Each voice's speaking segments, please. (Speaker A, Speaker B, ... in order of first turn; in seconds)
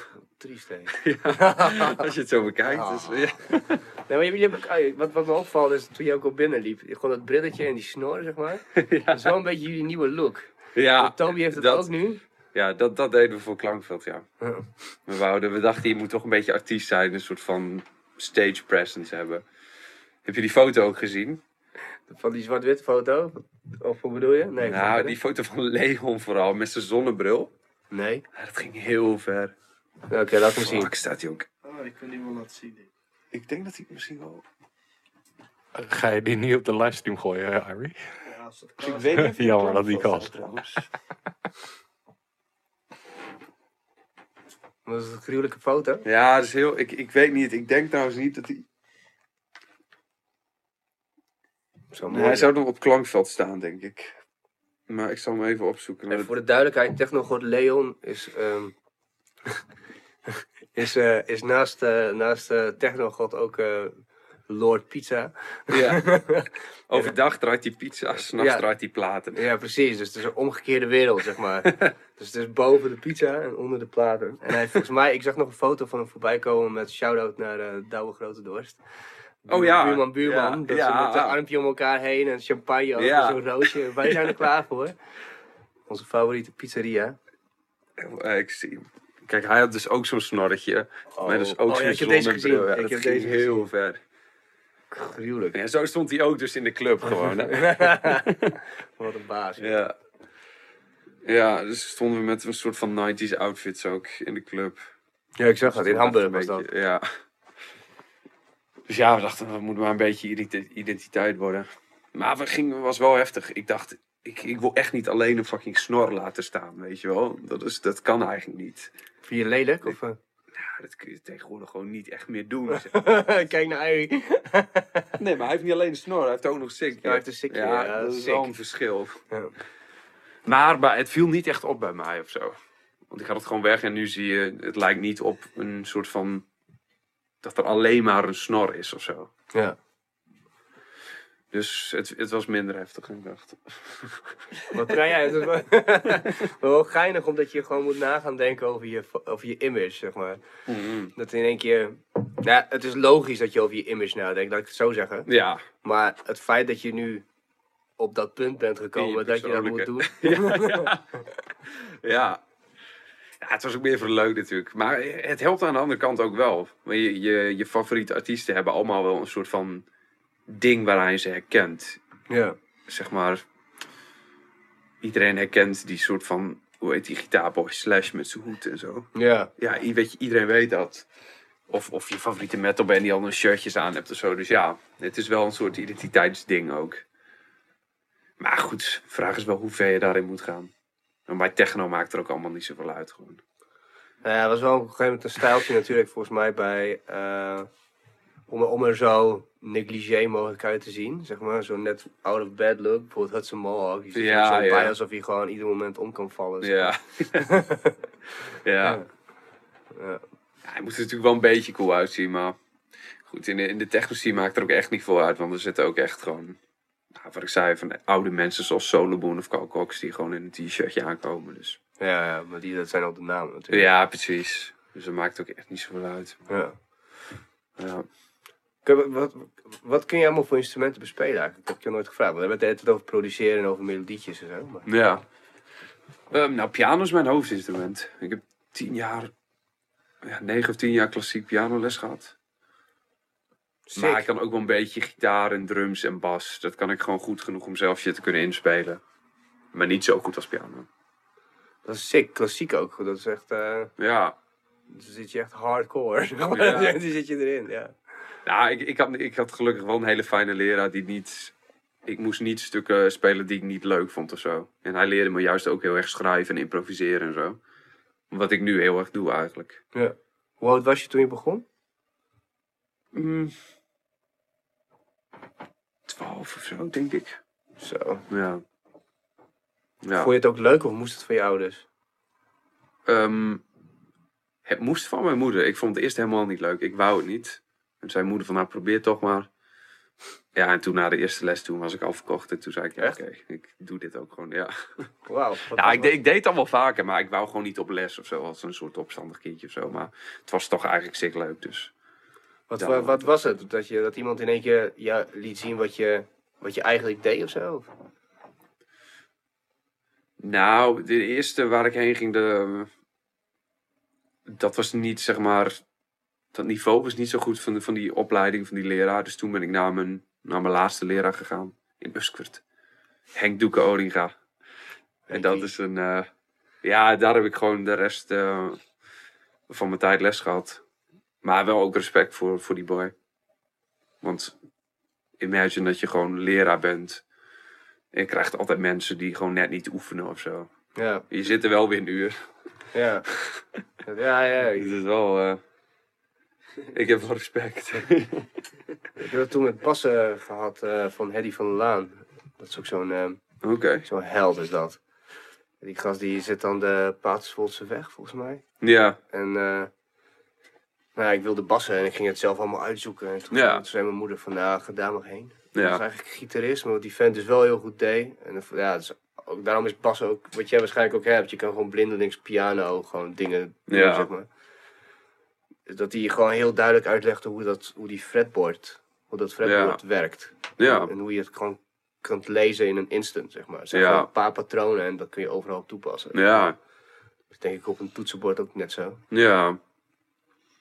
Speaker A: 0.1-2.1, 2.7-3.5, 4.0-12.2, 14.4-14.7, 22.1-25.1, 27.9-28.2, 30.1-30.9, 44.8-46.0, 51.9-52.5, 56.1-58.7, 60.7-67.1, 68.2-68.6, 69.3-78.8, 79.4-85.0, 85.9-87.2, 91.1-93.7, 94.9-95.5, 97.3-98.2, 99.0-99.8, 105.4-106.7, 119.2-120.2, 122.7-125.1, 127.0-128.6, 144.7-150.4, 151.1-155.3, 155.8-157.2, 158.0-160.9, 172.3-172.6, 179.1-179.5, 194.2-197.7, 198.5-208.0, 209.9-210.2, 222.0-223.9, 226.5-226.8, 228.8-234.9, 243.9-244.2, 251.8-253.9, 254.9-257.9, 269.9-271.6, 277.8-278.2, 280.1-281.9, 295.3-296.1, 302.7-307.9, 325.3-325.7, 340.9-341.2, 342.9-343.2, 344.0-344.9, 349.2-353.4, 354.0-355.0, 355.8-358.7, 359.3-359.9, 361.1-374.5, 375.9-386.7, 387.5-389.2
Speaker B: 1.0-3.8, 8.8-9.3, 10.7-11.9, 12.5-14.2, 15.1-19.4, 20.2-21.4, 24.6-27.5, 28.3-29.5, 30.6-31.4, 33.3-34.4, 38.8-40.8, 46.0-48.6, 52.1-54.2, 54.9-56.3, 65.7-66.2, 66.9-69.5, 79.5-81.4, 83.0-84.1, 88.0-94.0, 95.5-98.6, 99.6-99.9, 101.2-104.9, 105.7-107.0, 108.9-118.9, 120.5-123.0, 125.2-129.2, 130.4-132.5, 133.1-136.4, 137.4-139.3, 141.5-144.3, 150.7-151.1, 155.3-155.6, 158.9-161.0, 161.7-162.4, 163.4-169.8, 170.5-172.0, 172.9-173.4, 175.0-181.1, 181.7-187.0, 188.4-190.7, 191.3-193.4, 204.1-204.9, 206.6-207.5, 208.6-209.0, 210.6-212.6, 213.3-216.6, 217.2-221.8, 223.7-226.5, 227.8-228.1, 234.8-235.2, 236.3-239.3, 240.2-242.3, 244.0-249.0, 249.7-250.9, 254.0-254.3, 256.5-257.0, 258.4-261.5, 262.0-267.6, 268.3-269.8, 273.1-273.5, 276.1-277.4, 278.3-278.6, 280.0-280.3, 283.1-283.6, 284.6-289.5, 290.5-295.1, 295.8-301.9, 302.8-303.2, 310.4-312.9, 314.5-315.8, 316.5-322.6, 323.4-324.3, 325.3-326.3, 326.8-328.8, 329.7-330.8, 331.4-333.1, 334.2-334.5, 335.4-337.2, 338.1-340.7, 341.3-342.4, 343.3-343.6, 344.8-345.6, 346.9-348.5, 353.6-354.1, 358.8-359.2, 363.5-363.8, 365.7-366.0, 373.9-374.3, 379.6-380.0, 380.8-381.1, 383.9-384.3, 386.3-386.7, 389.3-389.8
Speaker C: 31.6-32.9, 38.2-39.2
Speaker D: 35.7-38.1, 39.2-40.3